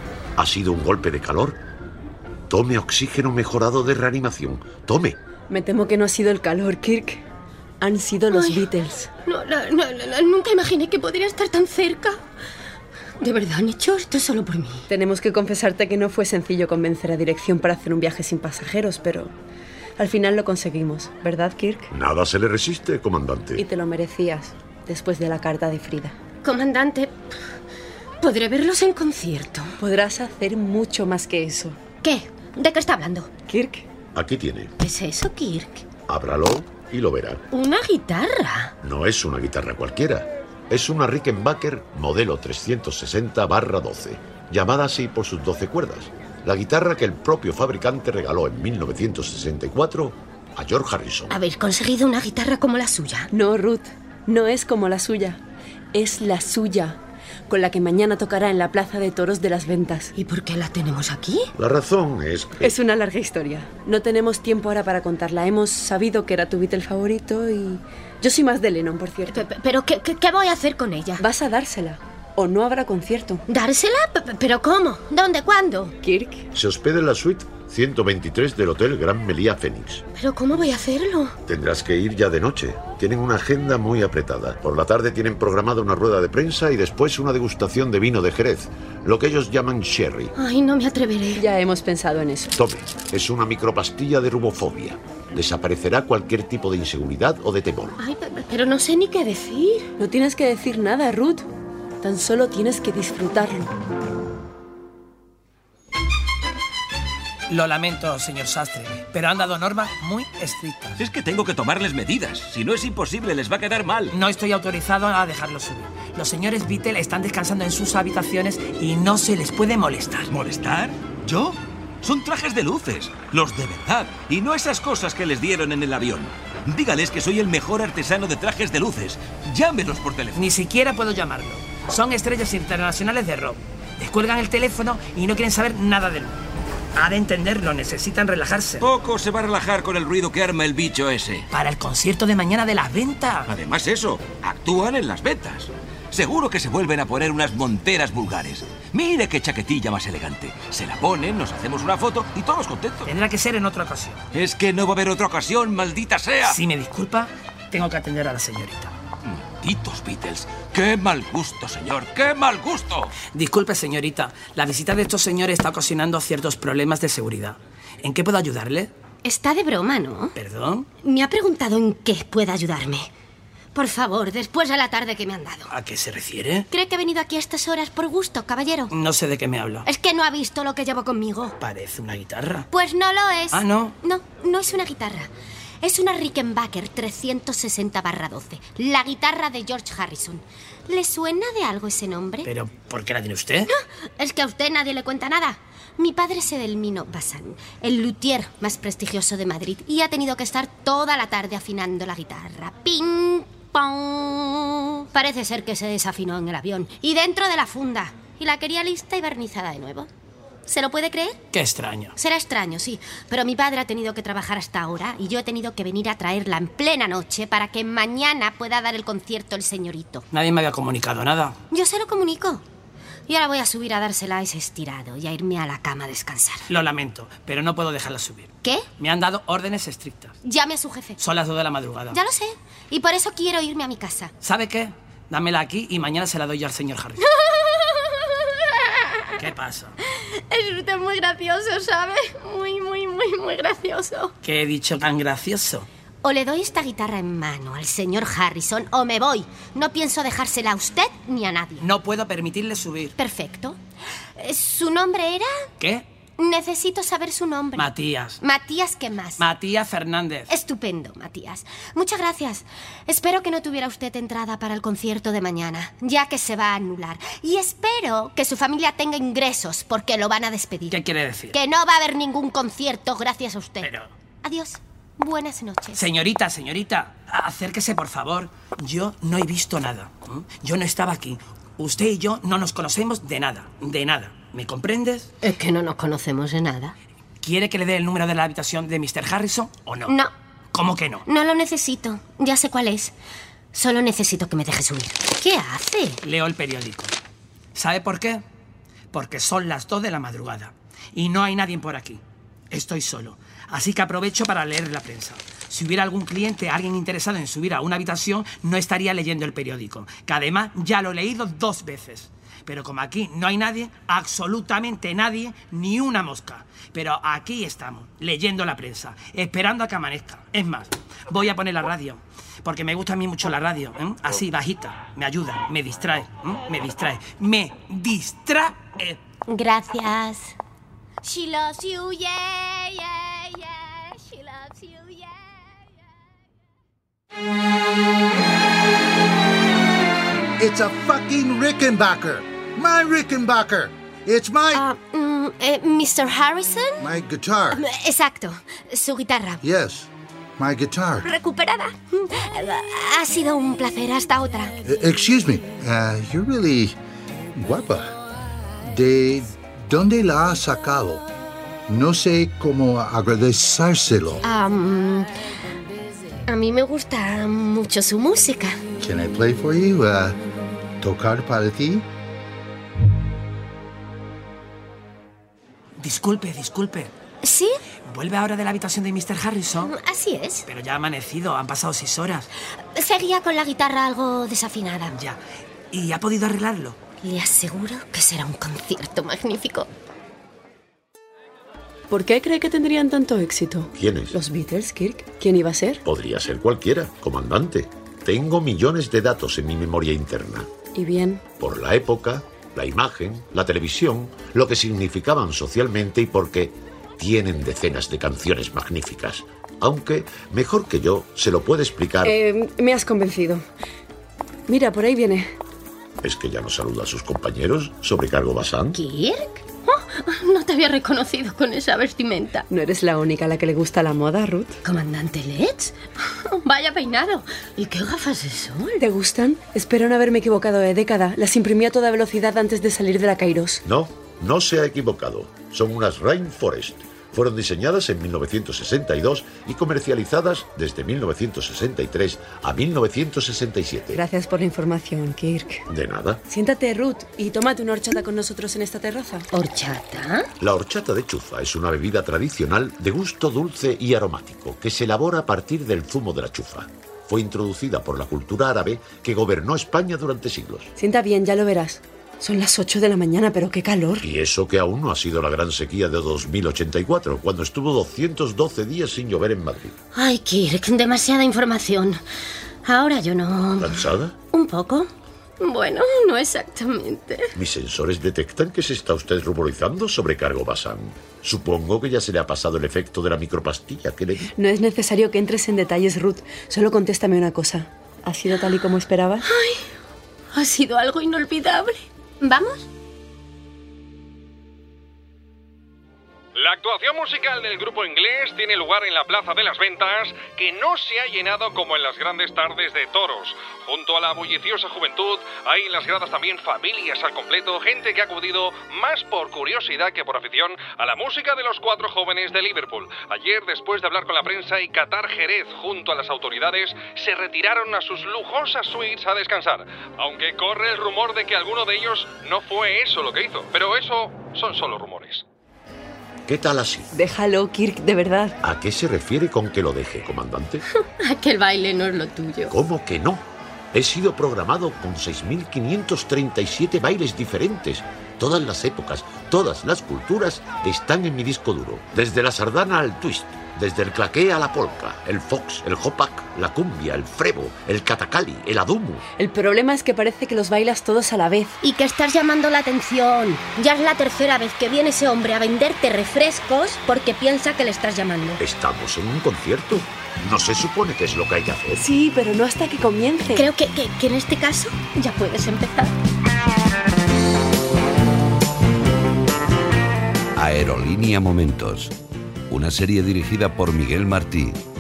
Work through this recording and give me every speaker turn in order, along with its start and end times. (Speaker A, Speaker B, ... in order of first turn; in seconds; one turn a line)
Speaker A: 0.4-1.6
Speaker A: 2.5-5.2
Speaker B: 5.5-7.2
Speaker B: 7.8-9.1
Speaker C: 8.3-8.7
Speaker C: 9.2-12.2
Speaker C: 13.2-14.9
Speaker B: 14.9-19.3
Speaker B: 20.0-21.9
Speaker A: 21.9-23.6
Speaker B: 23.6-26.1
Speaker C: 26.4-27.1
Speaker C: 28.2-29.7
Speaker B: 29.8-31.8
Speaker C: 32.0-33.3
Speaker B: 33.5-33.8
Speaker A: 34.1-34.7
Speaker C: 34.8-35.8
Speaker A: 36.1-37.4
Speaker C: 37.5-38.7
Speaker A: 38.8-51.4
Speaker C: 51.3-53.3
Speaker B: 53.3-55.4
Speaker B: 55.9-60.1
Speaker C: 60.1-61.5
Speaker A: 61.5-62.8
Speaker B: 62.6-69.4
Speaker C: 69.3-71.2
Speaker B: 71.2-73.4
Speaker C: 73.5-75.9
Speaker B: 76.0-76.4
Speaker A: 76.5-80.0
Speaker C: 80.1-81.3
Speaker A: 81.4-90.3
Speaker C: 90.3-91.4
Speaker B: 91.3-92.5
Speaker A: 92.5-98.0
Speaker C: 98.0-99.9
Speaker B: 100.0-101.5
Speaker B: 102.0-103.7
Speaker D: 107.5-111.0
Speaker E: 111.0-114.1
Speaker D: 114.1-120.3
Speaker E: 120.3-130.4
Speaker D: 130.3-136.4
Speaker D: 137.0-138.9
Speaker E: 138.8-141.4
Speaker D: 141.5-143.5
Speaker E: 143.5-153.1
Speaker D: 153.0-154.2
Speaker E: 154.3-156.6
Speaker D: 156.4-158.9
Speaker E: 159.2-163.1
Speaker D: 163.3-168.9
Speaker C: 169.2-170.3
Speaker D: 170.3-170.8
Speaker C: 171.0-173.1
Speaker C: 173.7-175.7
Speaker D: 175.7-176.7
Speaker C: 176.7-178.9
Speaker D: 178.9-179.8
Speaker C: 179.8-181.6
Speaker D: 181.6-182.7
Speaker C: 182.7-185.3
Speaker D: 183.5-183.9
Speaker C: 185.8-192.5
Speaker D: 192.4-193.7
Speaker C: 193.7-210.1
Speaker C: 210.6-211.4
Speaker D: 211.5-212.1
Speaker C: 212.2-220.2
Speaker D: 220.3-221.6
Speaker C: 221.7-222.6
Speaker C: 223.3-226.7
Speaker D: 226.7-230.4
Speaker C: 230.4-231.2
Speaker D: 231.2-232.2
Speaker C: 232.1-234.3
Speaker D: 234.4-237.2
Speaker C: 237.2-239.2
Speaker D: 239.4-239.9
Speaker C: 240.0-244.3
Speaker D: 244.4-245.9
Speaker C: 246.2-251.8
Speaker D: 251.8-253.1
Speaker C: 253.2-253.8
Speaker C: 254.3-255.7
Speaker D: 255.8-256.0
Speaker C: 256.4-259.4
Speaker D: 257.8-258.4
Speaker D: 259.4-260.5
Speaker C: 260.5-271.0
Speaker D: 270.9-271.6
Speaker C: 271.5-273.9
Speaker D: 273.8-274.1
Speaker C: 274.4-276.0
Speaker D: 275.9-285.3
Speaker C: 285.4-286.9
Speaker D: 287.4-290.1
Speaker C: 290.1-290.3
Speaker D: 290.7-291.2
Speaker C: 291.2-293.1
Speaker C: 293.7-296.2
Speaker D: 296.2-297.1
Speaker D: 297.7-298.4
Speaker D: 299.1-329.2
Speaker C: 329.5-330.5
Speaker C: 331.2-335.5
Speaker F: 340.6-344.8
Speaker C: 344.7-347.1
Speaker F: 347.0-347.8
Speaker C: 347.7-349.6
Speaker F: 349.6-351.3
Speaker C: 351.2-354.8
Speaker F: 354.8-356.9
Speaker F: 357.5-358.2
Speaker F: 358.8-361.2
Speaker F: 361.9-364.4
Speaker C: 364.4-365.3
Speaker C: 366.4-368.8
Speaker F: 369.0-370.4
Speaker F: 371.0-372.0
Speaker D: 376.0-377.1
Speaker C: 377.4-377.8
Speaker D: 378.1-379.9
Speaker C: 379.8-380.6
Speaker D: 380.6-382.5
Speaker C: 382.9-385.2
Speaker D: 385.1-385.4
Speaker D: 385.9-387.0
Speaker C: 387.2-389.9
Speaker B: 392.1-396.0
Speaker A: 393.9-394.4
Speaker A: 396.0-400.7
Speaker B: 400.9-401.4
Speaker A: 401.6-412.4
Speaker B: 412.2-413.6
Speaker B: 414.7-415.5
Speaker A: 416.2-419.0
Speaker C: 418.9-422.7
Speaker B: 422.7-424.8
Speaker C: 424.8-429.0
Speaker B: 429.0-433.8
Speaker A: 433.8-444.2
Speaker B: 444.1-445.8
Speaker A: 445.9-446.4
Speaker B: 446.5-449.5
Speaker C: 449.5-450.5
Speaker A: 450.6-460.9
Speaker B: 461.0-464.2
Speaker A: 464.2-469.9
Speaker C: 470.1-472.2
Speaker C: 472.8-475.1
Speaker A: 473.8-474.4
Speaker C: 475.6-477.5
Speaker A: 477.5-484.5
Speaker B: 484.6-489.4
Speaker C: 489.4-489.8
Speaker C: 490.5-492.9
Speaker G: 496.6-525.4
Speaker A: 526.5-527.1
Speaker B: 527.1-528.6
Speaker A: 528.6-530.8
Speaker C: 530.9-532.7
Speaker A: 532.7-549.2
Speaker B: 549.4-551.8
Speaker C: 551.8-558.6
Speaker A: 558.6-562.1
Speaker B: 562.0-563.7
Speaker C: 563.5-566.1
Speaker H: 570.5-572.1
Speaker H: 572.7-574.8